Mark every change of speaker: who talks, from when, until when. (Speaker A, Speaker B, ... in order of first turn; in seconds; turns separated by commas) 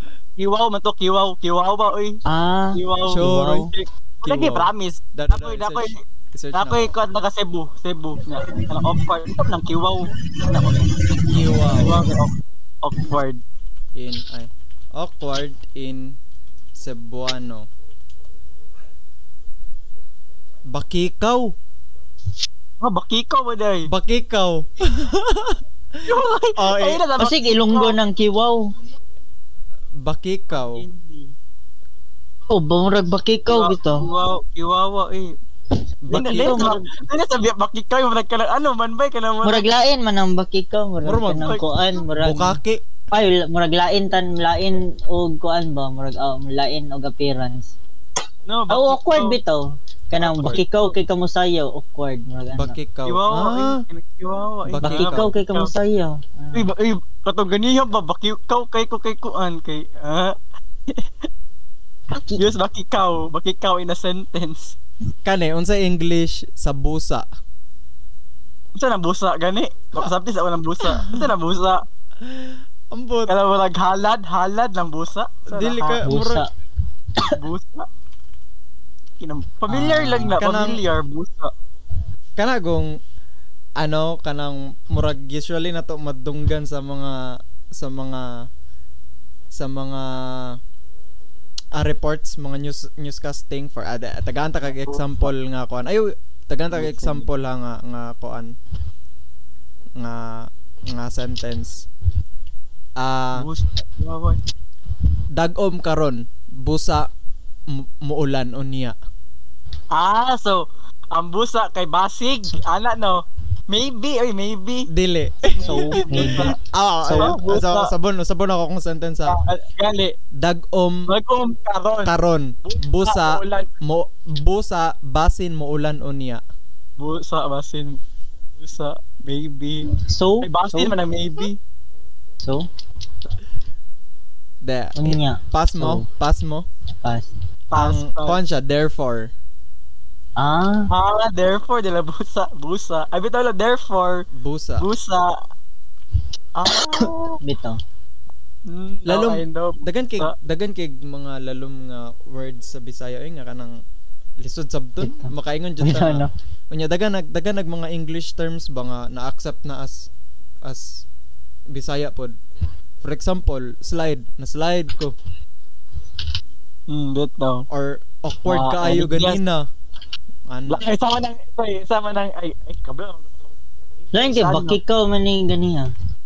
Speaker A: 0.4-2.2, Speaker B: 2.2-3.7, Speaker A: 2.7-6.0, Speaker C: 3.1-3.7, Speaker C: 4.2-6.9, Speaker A: 6.5-11.0, Speaker C: 11.3-12.0, Speaker A: 11.8-13.4, Speaker C: 13.9-16.2, Speaker C: 16.7-17.7, Speaker C: 20.7-21.5, Speaker A: 22.8-23.9, Speaker C: 23.9-27.0, Speaker A: 26.0-28.0, Speaker B: 27.2-28.7, Speaker C: 30.0-30.8, Speaker A: 30.5-31.3, Speaker B: 32.5-34.1, Speaker A: 33.5-35.3, Speaker C: 36.0-36.6, Speaker A: 36.1-39.7, Speaker B: 36.3-36.8, Speaker B: 39.4-42.6, Speaker C: 41.0-41.5, Speaker A: 41.3-41.6, Speaker C: 42.2-42.8, Speaker B: 43.1-47.7, Speaker A: 48.5-49.4, Speaker B: 48.7-52.7, Speaker C: 50.2-50.6, Speaker A: 50.5-50.8, Speaker C: 52.5-53.8, Speaker A: 53.1-55.7, Speaker C: 54.7-55.3, Speaker B: 54.8-56.7, Speaker A: 56.5-60.4, Speaker A: 60.9-61.2, Speaker B: 62.1-62.4, Speaker A: 62.2-64.8, Speaker C: 65.2-67.2, Speaker A: 68.8-71.8, Speaker C: 70.9-71.3, Speaker C: 72.2-73.3, Speaker A: 73.3-76.0, Speaker C: 75.5-76.5, Speaker B: 76.0-76.5, Speaker A: 77.2-77.9, Speaker A: 79.2-81.5, Speaker B: 79.7-80.4, Speaker C: 80.4-80.8, Speaker C: 82.4-82.9, Speaker C: 83.8-87.2, Speaker C: 87.7-88.3, Speaker C: 89.5-90.6, Speaker C: 91.7-98.5, Speaker A: 94.6-95.3, Speaker A: 96.7-97.2, Speaker C: 100.0-101.9, Speaker C: 103.0-103.5, Speaker A: 103.3-104.4, Speaker C: 105.3-107.1, Speaker C: 107.7-108.9, Speaker A: 109.9-114.9, Speaker C: 114.9-119.4, Speaker A: 115.5-117.9, Speaker B: 115.6-116.5, Speaker A: 119.2-120.1, Speaker C: 120.4-121.1, Speaker A: 121.1-122.1, Speaker C: 122.0-126.4, Speaker A: 122.6-123.7, Speaker A: 127.0-128.0, Speaker A: 128.6-129.9, Speaker B: 129.9-130.9, Speaker A: 130.4-131.6, Speaker B: 132.4-132.7, Speaker C: 134.6-136.7, Speaker B: 134.9-136.0, Speaker B: 137.0-137.3, Speaker A: 137.7-138.4, Speaker C: 137.7-139.3, Speaker B: 140.4-140.9, Speaker A: 140.9-144.2, Speaker C: 144.3-144.9, Speaker A: 144.8-145.3, Speaker A: 146.5-147.4, Speaker B: 146.7-147.8, Speaker A: 148.7-150.3, Speaker C: 149.1-153.8, Speaker C: 154.4-160.1, Speaker B: 155.0-156.3, Speaker C: 160.6-161.0, Speaker C: 161.7-162.3, Speaker C: 163.0-165.1, Speaker A: 166.9-167.7, Speaker C: 167.7-169.6, Speaker A: 168.4-169.4, Speaker C: 170.5-170.8, Speaker A: 170.7-173.5, Speaker A: 174.0-174.8, Speaker B: 174.1-175.9